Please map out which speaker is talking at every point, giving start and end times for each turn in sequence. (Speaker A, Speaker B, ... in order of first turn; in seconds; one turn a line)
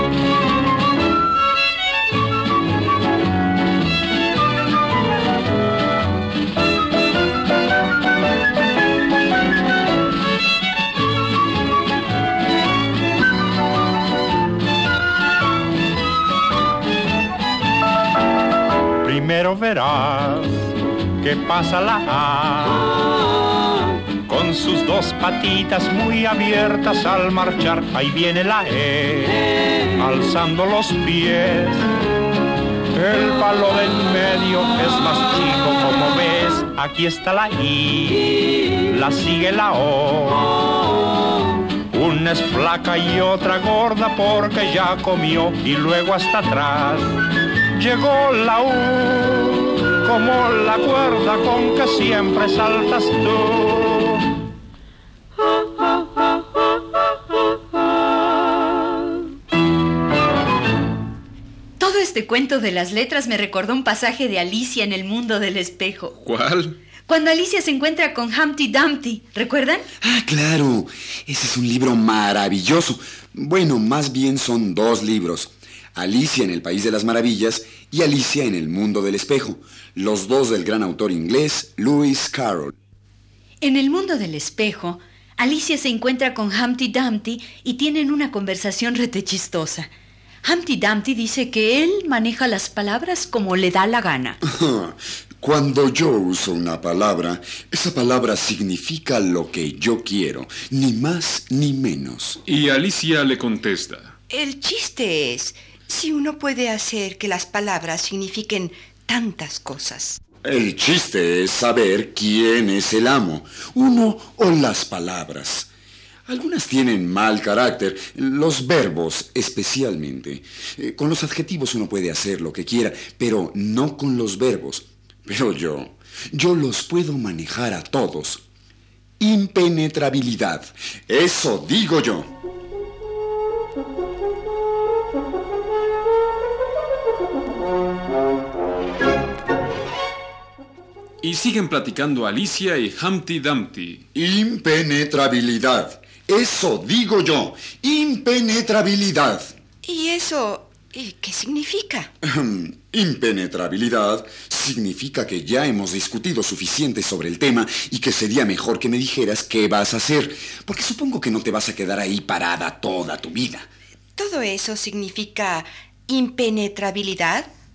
Speaker A: 19.0-23.0
Speaker A: 24.2-31.9
Speaker A: 32.9-40.6
Speaker A: 41.9-47.1
Speaker A: 47.8-54.3
Speaker B: 61.8-66.2
Speaker C: 66.2-66.8
Speaker B: 67.1-69.9
Speaker D: 70.0-82.7
Speaker B: 83.6-89.9
Speaker B: 90.5-94.4
Speaker D: 94.4-102.4
Speaker C: 102.5-104.1
Speaker E: 104.3-110.2
Speaker D: 110.4-115.7
Speaker D: 116.3-128.4
Speaker D: 129.2-132.3
Speaker C: 141.2-144.0
Speaker D: 144.1-149.5
Speaker E: 149.8-152.1
Speaker D: 152.2-163.7
Speaker E: 164.1-167.5